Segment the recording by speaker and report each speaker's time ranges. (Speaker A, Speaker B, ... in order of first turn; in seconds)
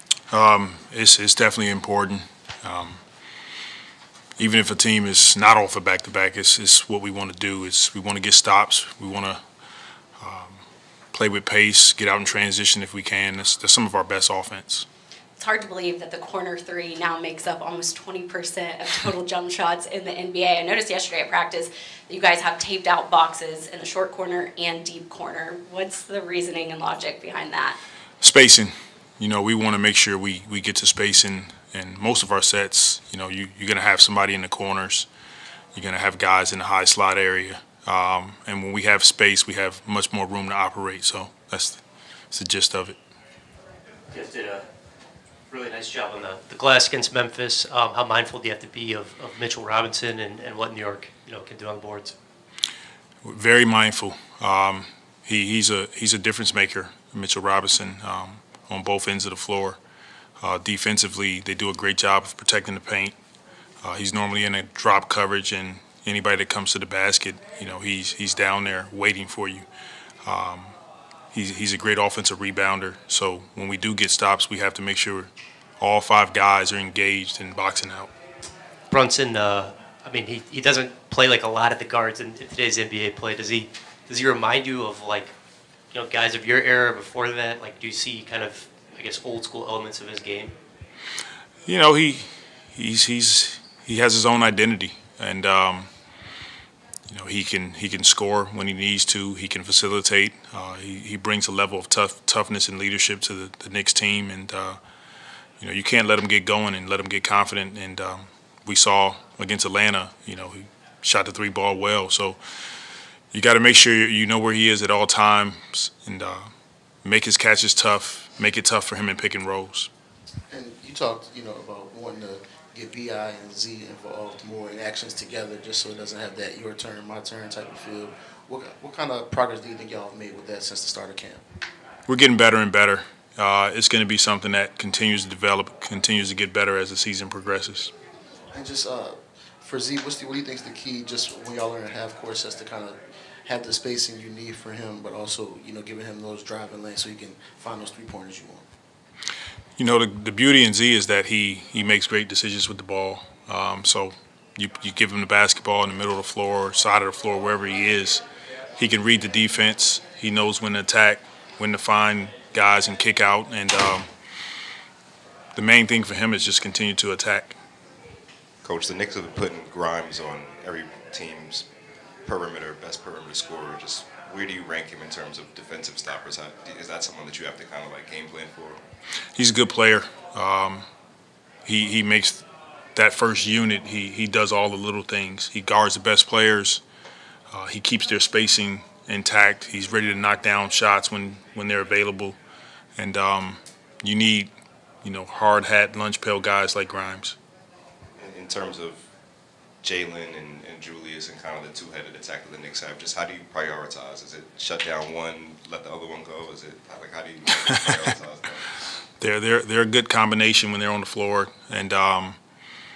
Speaker A: 0.3-3.0, 4.4-9.4, 10.2-10.6, 11.1-14.8, 28.2-35.1, 35.7-43.0, 53.2-59.8, 60.4-63.1, 63.8-69.7, 70.2-70.7, 71.3-78.1, 91.7-95.9, 97.1-104.8, 105.6-112.4, 113.3-116.5, 117.0-119.9, 132.1-137.9, 149.8-158.2, 158.8-164.1, 165.5-167.6, 179.3-180.9, 181.6-186.8, 187.5-192.4, 193.0-197.3, 209.2-212.4
Speaker B: 15.4-27.8
Speaker C: 44.1-44.6, 45.5-52.1, 78.9-85.3, 85.9-90.5
Speaker D: 120.5-131.4, 138.5-148.6
Speaker E: 168.6-171.7, 172.2-178.8, 198.2-199.0, 199.8-208.8